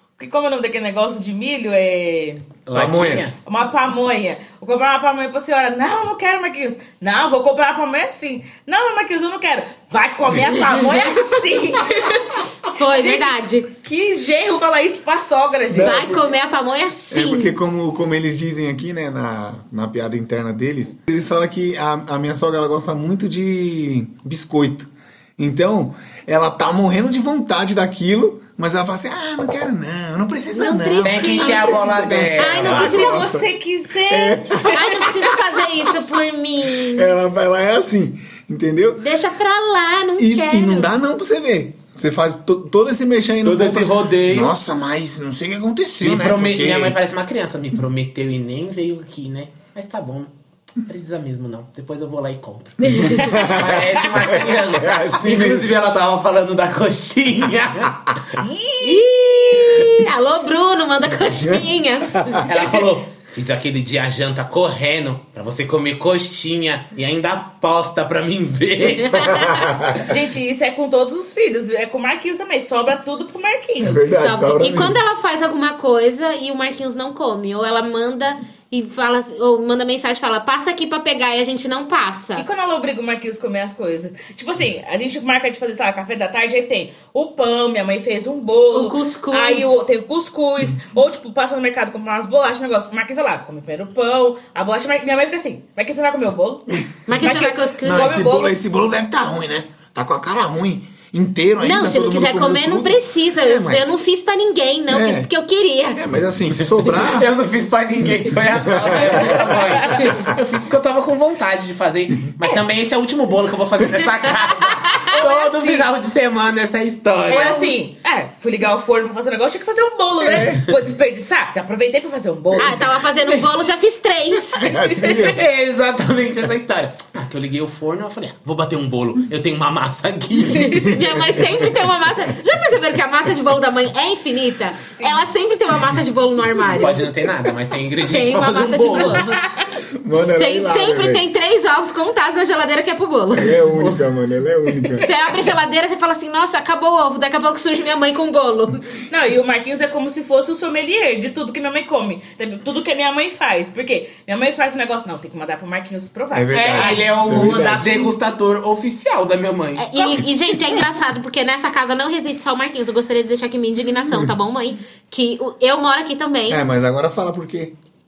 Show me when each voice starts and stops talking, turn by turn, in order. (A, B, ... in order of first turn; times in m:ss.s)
0:00.2-0:02.4 A
0:02.7-0:03.3 B
0:02.7-0:03.3 C
0:03.4-0:16.2 A
0:10.5-0:10.8 D
0:12.7-0:13.7 D
0:15.7-0:16.3 C
0:15.8-0:17.6 D
0:17.1-0:33.5 C
0:30.5-0:33.2 D
0:31.0-0:33.1 B
0:32.7-0:35.3 A
0:34.0-0:35.3 C
0:34.7-0:37.1 D
0:36.8-0:39.0 C
0:39.0-0:40.9 D
0:40.2-0:47.0 C
0:43.4-0:44.5 B
0:46.0-0:58.4 B
0:52.9-0:53.3 D
0:53.0-0:55.8 C
0:58.4-0:59.8 A
0:58.8-1:02.5 D
1:02.4-1:09.5 B
1:09.0-1:09.7 D
1:09.2-1:10.2 C
1:09.9-1:14.0 A
1:13.8-1:15.0 C
1:14.1-1:22.5 D
1:22.4-1:38.5 A
1:28.7-1:29.7 D
1:37.1-1:38.1 D
1:37.2-1:44.0 C
1:41.6-1:46.0 D
1:44.9-1:45.3 C
1:46.0-1:47.3 C
1:46.6-1:57.6 B
1:48.0-1:50.3 C
1:49.2-1:50.1 A
1:54.5-1:55.1 D
1:55.1-1:55.9 A
1:57.3-1:57.8 D
1:57.3-2:02.8 A
2:00.2-2:00.6 C
2:02.6-2:04.9 D
2:03.2-2:03.5 B
2:04.6-2:05.4 C
2:05.0-2:11.0 B
2:10.5-2:17.0 D
2:10.6-2:11.9 C
2:16.7-2:19.2 B
2:18.0-2:19.4 D
2:20.0-2:21.2 C
2:20.4-2:23.6 D
2:23.3-2:25.1 C
2:23.7-2:24.0 B
2:25.0-2:29.0 D
2:29.1-2:38.1 A
2:36.3-2:38.1 C
2:36.5-2:40.2 B
2:39.8-2:46.6 D
2:44.0-2:44.3 C
2:46.5-2:47.7 C